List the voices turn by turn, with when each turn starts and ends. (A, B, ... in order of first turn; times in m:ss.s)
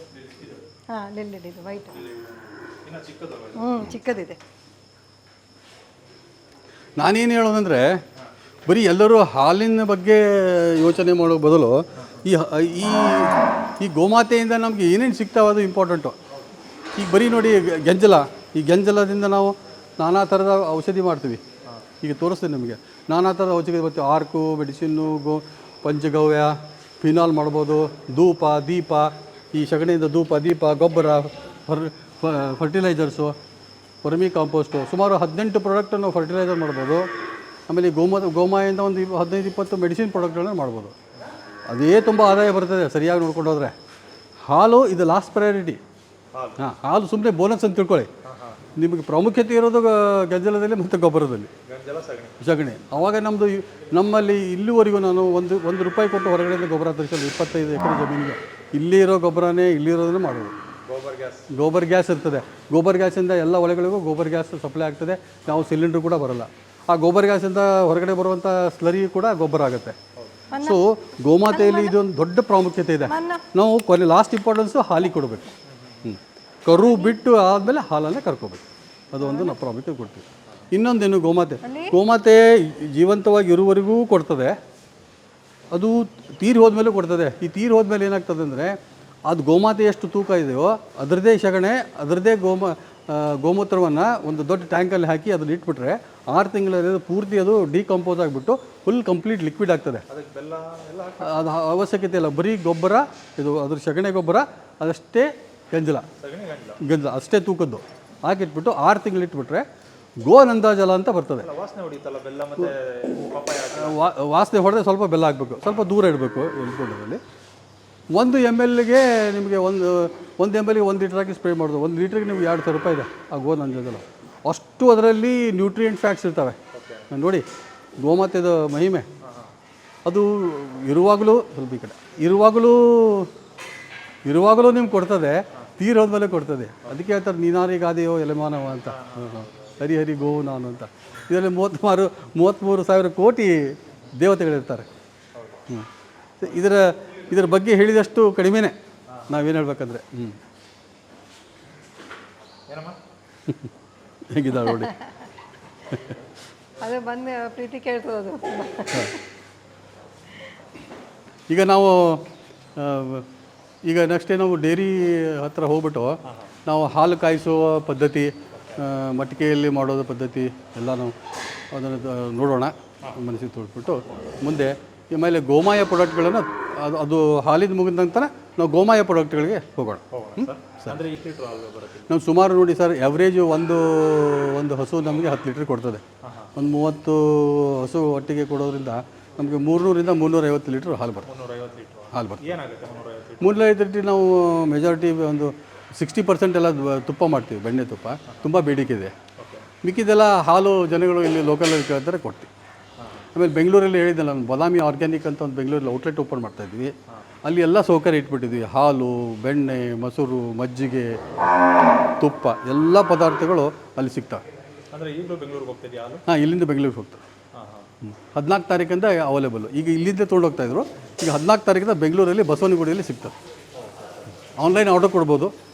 0:00.1-0:00.6 A
0:00.9-0:02.1 B
0:02.8-0:03.9 A
0:03.6-0:04.4 B
0:07.0-0:08.0 C
0:08.7-0:16.2 C
0:12.0-0:12.2 A
0:16.9-0:21.4 C
0:22.0-0:33.4 C
0:34.0-0:37.1 C
0:37.7-0:40.9 C
0:41.7-0:43.7 C
0:44.4-0:45.8 C
0:46.3-0:46.6 A
0:46.6-0:48.1 C
0:48.2-0:48.6 A
0:48.8-0:51.5 C
0:51.6-0:52.4 A
0:52.4-1:00.6 C
1:00.9-1:01.5 A
1:01.5-1:10.0 C
1:10.2-1:10.4 A
1:10.5-1:10.8 B
1:10.6-1:24.6 C
1:11.4-1:12.0 B
1:13.1-1:13.4 B
1:15.7-1:16.1 A
1:16.7-1:17.2 B
1:19.2-1:19.6 B
1:21.6-1:22.0 B
1:25.7-1:40.0 C
1:40.1-1:41.5 A
1:41.2-1:46.1 C
1:46.2-1:46.8 A
1:46.8-1:49.6 C
1:50.2-1:51.5 C
1:51.4-1:54.1 A
1:52.6-1:57.2 C
1:58.1-2:06.6 C
2:06.7-2:07.1 A
2:07.1-2:07.5 C
2:08.0-2:09.1 C
2:09.2-2:09.5 A
2:10.0-2:13.3 C
2:14.2-2:24.9 C
2:18.9-2:19.7 A
2:25.3-2:25.6 A
2:26.4-2:28.7 C
2:29.3-2:30.4 C
2:32.7-2:33.0 A
2:33.5-2:33.7 C
2:34.2-2:34.9 C
2:34.6-2:35.1 B
2:36.8-2:39.2 B
2:41.5-2:43.3 C
2:43.8-2:51.1 C
2:46.2-2:46.5 A
2:48.5-2:48.8 A
2:51.7-3:01.0 C
3:00.1-3:02.1 A
3:02.1-3:06.0 C
3:06.2-3:06.5 A
3:06.5-3:11.3 C
3:11.2-3:13.6 A
3:12.1-3:12.6 C
3:13.4-3:19.1 C
3:18.3-3:18.5 A
3:19.4-3:19.7 A
3:19.8-3:22.5 C
3:23.0-3:23.3 A
3:23.3-3:31.2 C
3:32.2-3:34.4 C
3:34.9-3:36.2 A
3:36.3-3:37.2 C
3:37.5-3:37.9 A
3:38.0-3:43.3 C
3:43.7-3:44.3 A
3:44.6-3:45.5 C